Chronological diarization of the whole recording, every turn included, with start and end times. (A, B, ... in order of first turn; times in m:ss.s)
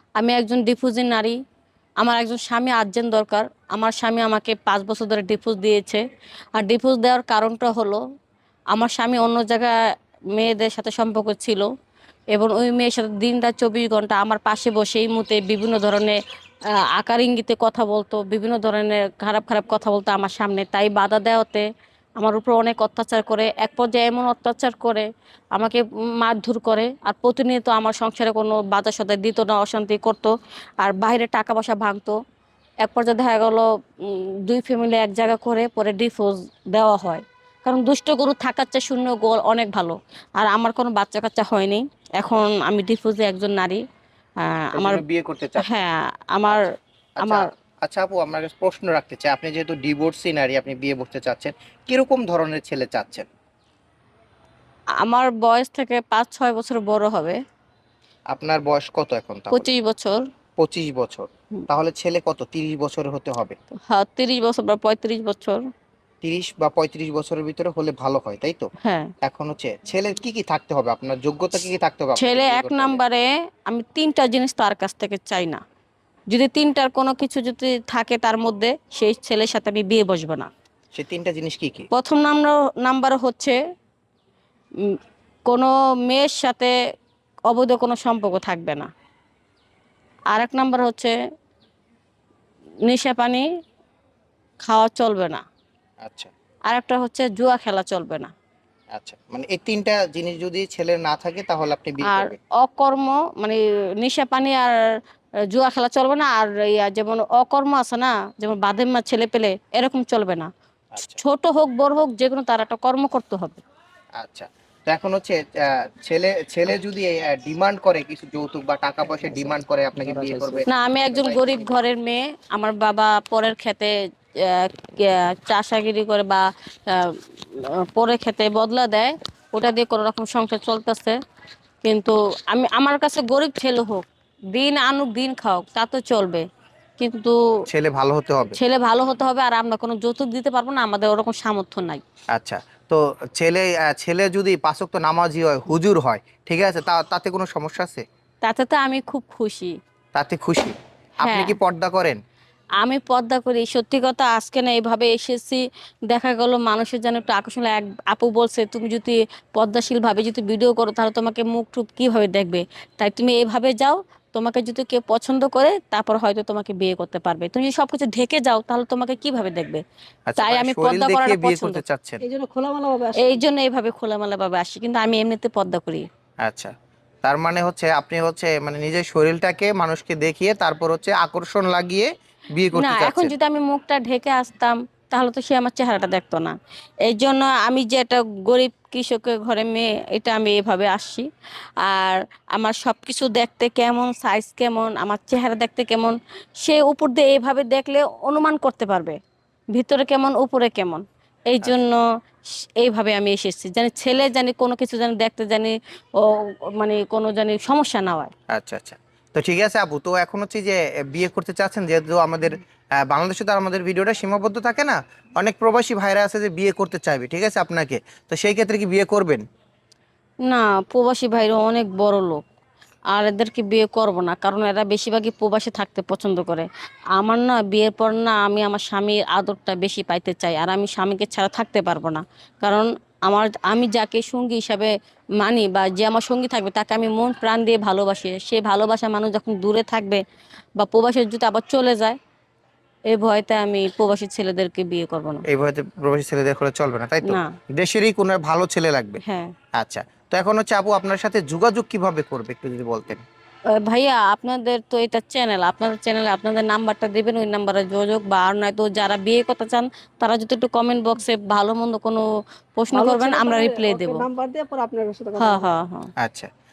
0:00.2-0:01.4 A
0:02.0-0:06.0 A
0:06.6-0:08.0 A
0:08.7-0:09.8 A
0:10.3-0:11.7 A
0:12.3-0:16.2 A
0:16.9-0:21.6 A
0:22.2-0:32.2 A
0:32.8-0:43.8 A
0:44.4-0:45.0 A
0:44.7-0:45.8 B
0:45.6-0:46.7 A
0:47.2-0:53.3 B
0:47.2-0:47.5 A
0:55.0-0:57.4 A
0:58.3-0:59.7 B
0:59.5-1:00.2 A
1:00.6-1:03.6 B
1:03.9-1:05.6 A
1:06.2-1:08.7 B
1:08.8-1:09.1 A
1:09.2-1:13.0 B
1:12.2-1:15.6 A
1:16.3-1:20.5 A
1:21.0-1:21.9 B
1:21.9-1:23.6 A
1:25.5-1:26.7 A
1:27.5-1:28.9 A
1:30.3-1:31.1 A
1:32.8-1:33.5 A
1:34.6-1:35.4 A
1:36.0-1:36.3 B
1:36.7-1:38.3 A
1:38.9-1:42.4 B
1:42.0-1:44.8 A
1:45.5-1:50.5 A
1:50.9-1:51.2 B
1:51.0-1:53.6 A
1:54.2-2:01.8 B
2:00.7-2:11.2 A
2:11.8-2:16.4 A
2:17.0-2:17.4 A
2:17.7-2:18.6 B
2:18.6-2:22.0 A
2:22.3-2:28.0 B
2:28.4-2:29.8 A
2:30.1-2:32.2 B
2:31.2-2:31.5 A
2:32.8-2:49.8 A
2:50.3-2:52.2 B
2:50.4-2:51.8 A
2:52.2-2:53.4 C
2:53.2-2:56.1 A
2:56.4-2:56.7 B
2:57.2-3:03.3 B
3:02.7-3:11.3 A
3:11.8-3:19.2 A
3:19.7-3:22.0 A
3:22.8-3:28.3 A
3:28.5-3:39.4 B
3:40.4-3:42.4 A
3:43.1-4:00.2 A
4:00.8-4:02.2 A
4:03.1-4:05.4 A
4:05.5-4:09.2 B
4:07.2-4:07.5 A
4:09.2-4:09.5 A
4:09.8-4:13.2 B
4:13.8-4:22.2 A
4:22.8-4:24.2 A
4:22.9-4:25.7 C
4:25.4-4:26.1 A
4:26.2-4:26.5 B